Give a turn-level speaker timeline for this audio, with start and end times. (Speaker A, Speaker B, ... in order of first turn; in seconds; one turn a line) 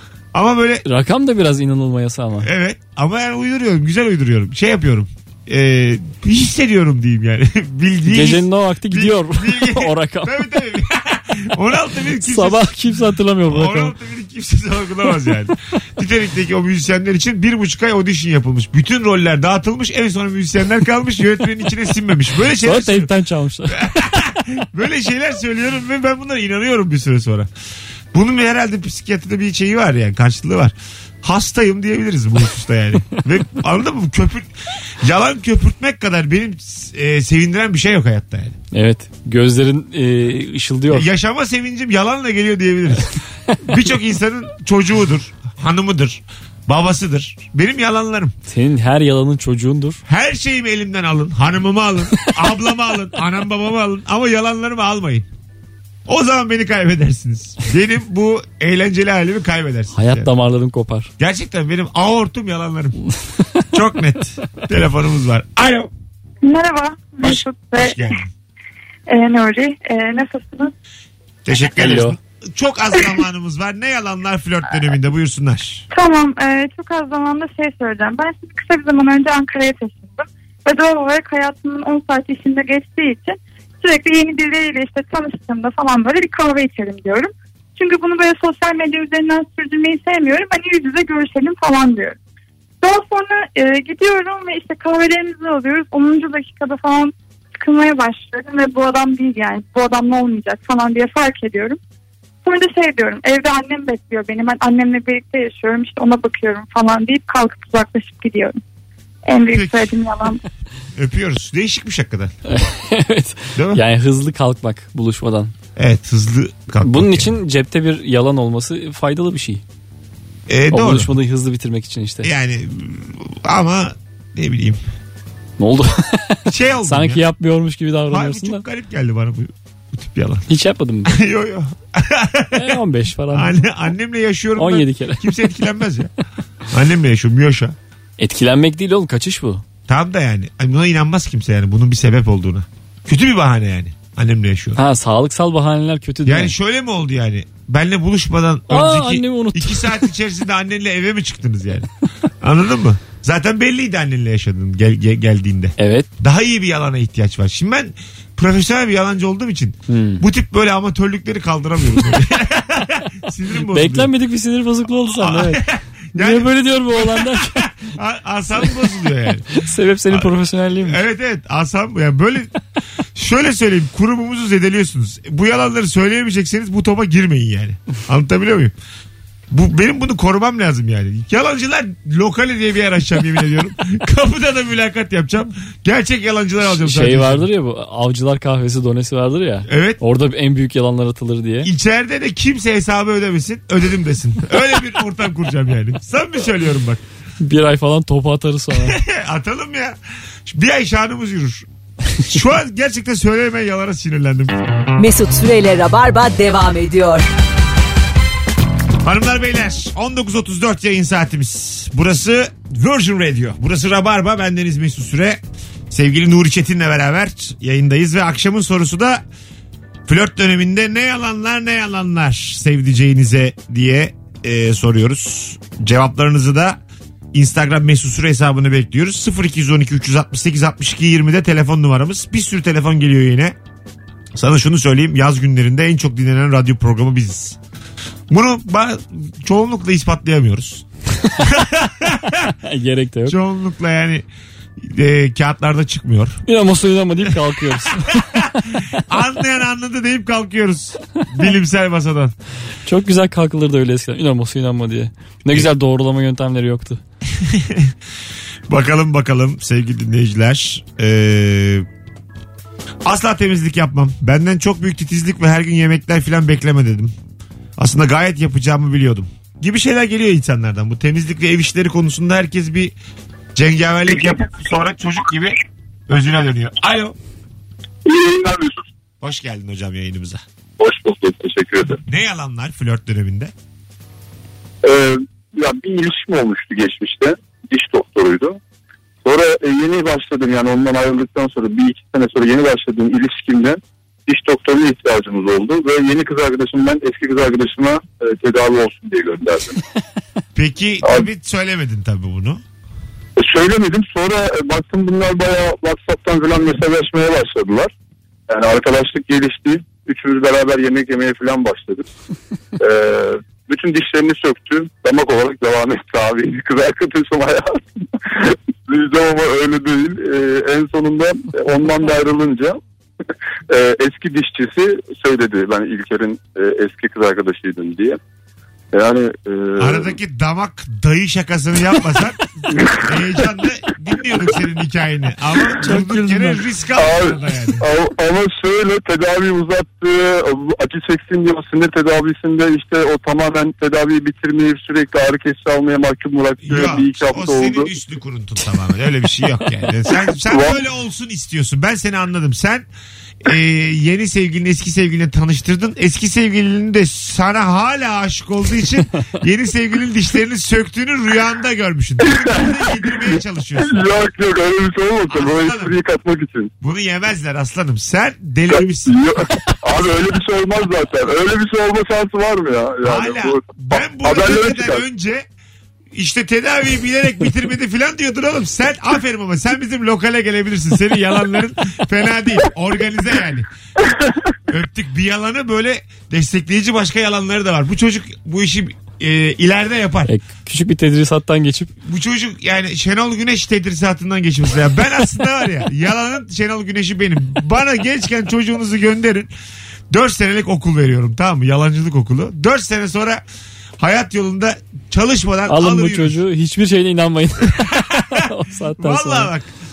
Speaker A: 0.3-0.8
Speaker B: 0.8-2.5
Speaker A: 2.4-12.7
Speaker B: 8.1-10.4
Speaker B: 12.2-13.9
Speaker A: 13.5-23.1
Speaker B: 22.6-24.1
Speaker A: 23.7-27.5
Speaker A: 28.1-34.5
Speaker A: 35.0-38.6
Speaker B: 38.7-41.1
Speaker A: 40.9-48.3
Speaker B: 48.5-50.0
Speaker A: 50.1-55.2
Speaker A: 56.1-60.3
Speaker B: 59.9-61.1
Speaker A: 61.2-63.0
Speaker A: 63.7-65.9
Speaker C: 66.4-68.1
Speaker A: 67.2-68.3
Speaker C: 69.1-70.7
Speaker A: 71.4-75.8
Speaker B: 71.8-72.2
Speaker C: 75.9-92.2
Speaker C: 92.8-101.8
Speaker C: 102.4-108.6
Speaker C: 109.2-110.4
Speaker A: 109.5-109.9
Speaker A: 110.9-112.3
Speaker B: 112.4-115.5
Speaker A: 113.5-113.8
Speaker A: 115.8-117.3
Speaker B: 116.8-119.6
Speaker A: 120.5-121.1
Speaker B: 120.7-122.3
Speaker A: 122.2-124.8
Speaker B: 125.6-128.6
Speaker A: 126.5-127.2
Speaker A: 128.1-130.4
Speaker B: 130.5-131.2
Speaker A: 131.1-132.8
Speaker B: 132.5-133.6
Speaker A: 133.3-136.1
Speaker B: 134.6-135.3
Speaker A: 136.7-137.8
Speaker B: 138.2-139.6
Speaker A: 139.9-144.8
Speaker B: 144.8-146.5
Speaker A: 146.2-151.9
Speaker B: 148.7-150.1
Speaker A: 152.4-164.1
Speaker B: 155.8-156.1
Speaker B: 159.9-160.2
Speaker B: 163.7-167.7
Speaker A: 165.1-169.5
Speaker B: 169.5-171.0
Speaker A: 170.1-172.6
Speaker A: 173.1-178.7
Speaker A: 179.5-187.4
Speaker B: 186.6-191.7
Speaker A: 189.7-190.0
Speaker A: 191.6-197.0
Speaker B: 197.4-199.0
Speaker A: 198.7-201.7
Speaker A: 202.2-204.6
Speaker D: 205.0-207.2
Speaker A: 209.0-219.2
Speaker A: 220.1-226.8
Speaker A: 227.3-233.6
Speaker A: 234.3-237.6
Speaker A: 238.3-240.8
Speaker A: 241.4-242.5
Speaker B: 242.6-243.4
Speaker A: 243.3-244.2
Speaker A: 244.8-246.4
Speaker B: 246.4-248.6
Speaker A: 248.0-252.3
Speaker B: 252.8-257.0
Speaker A: 257.3-257.9
Speaker A: 258.7-261.9
Speaker A: 263.0-267.1
Speaker A: 267.8-272.9
Speaker A: 273.5-275.6
Speaker A: 276.1-277.1
Speaker E: 278.1-278.9
Speaker A: 279.2-280.4
Speaker E: 280.8-282.0
Speaker A: 282.1-283.5
Speaker E: 284.8-288.6
Speaker E: 289.2-299.8
Speaker A: 300.5-302.6
Speaker E: 303.4-307.9
Speaker E: 308.5-312.1
Speaker E: 312.8-322.8
Speaker E: 323.7-328.2
Speaker E: 328.9-330.1
Speaker A: 329.8-332.4
Speaker A: 333.0-337.8
Speaker B: 335.8-336.6
Speaker E: 336.9-347.9
Speaker A: 346.6-352.9
Speaker E: 350.5-350.8
Speaker A: 353.4-364.0
Speaker E: 363.8-366.7
Speaker A: 365.3-365.9
Speaker A: 366.8-369.3
Speaker E: 368.7-375.0
Speaker A: 373.0-375.4
Speaker A: 376.1-383.7
Speaker A: 384.7-390.3
Speaker B: 390.3-391.9
Speaker A: 392.0-399.5
Speaker A: 400.1-403.4
Speaker A: 404.0-406.4
Speaker B: 405.7-409.5
Speaker A: 407.7-409.7